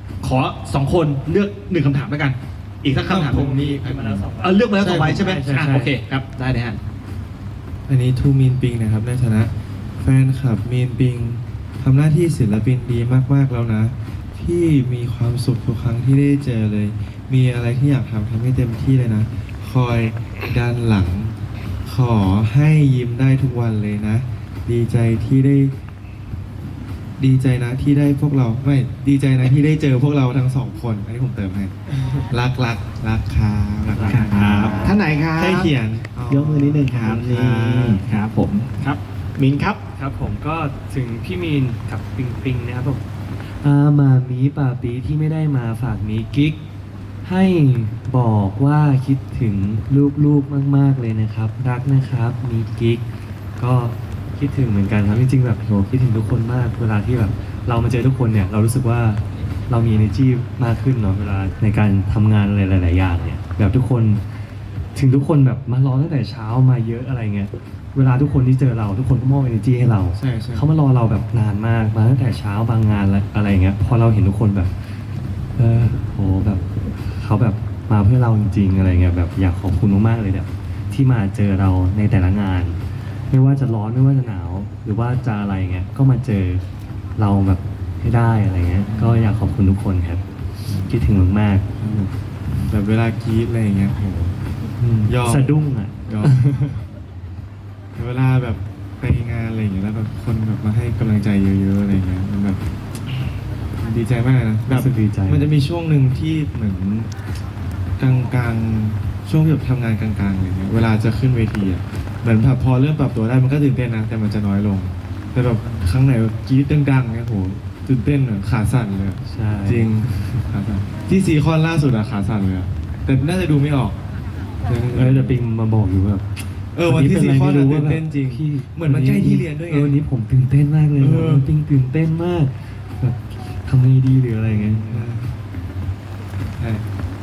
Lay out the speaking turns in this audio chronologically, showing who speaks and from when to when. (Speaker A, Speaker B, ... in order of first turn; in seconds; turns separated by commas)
Speaker A: 0.2-3.6, Speaker B: 3.1-4.2, Speaker C: 3.2-5.9, Speaker A: 4.4-6.8, Speaker B: 4.8-5.3, Speaker B: 7.9-25.7, Speaker B: 27.2-31.7, Speaker B: 32.3-38.0, Speaker C: 33.9-35.0, Speaker A: 34.0-35.7, Speaker A: 36.3-39.8, Speaker C: 40.0-43.0, Speaker C: 43.6-46.6, Speaker C: 47.2-53.0, Speaker C: 53.6-64.2, Speaker C: 65.0-74.7, Speaker B: 70.2-70.7, Speaker C: 75.6-82.8, Speaker C: 83.3-86.6, Speaker C: 87.2-90.2, Speaker B: 88.9-89.2, Speaker C: 90.9-91.7, Speaker B: 91.8-94.3, Speaker C: 94.8-96.8, Speaker B: 95.1-96.4, Speaker B: 98.0-102.6, Speaker B: 103.8-107.1, Speaker C: 104.7-105.5, Speaker B: 108.0-124.0, Speaker C: 119.3-120.4, Speaker B: 124.7-125.4, Speaker C: 124.9-126.2, Speaker B: 126.8-130.0, Speaker C: 126.8-135.1, Speaker B: 131.0-131.5, Speaker B: 134.5-135.3, Speaker B: 136.6-136.8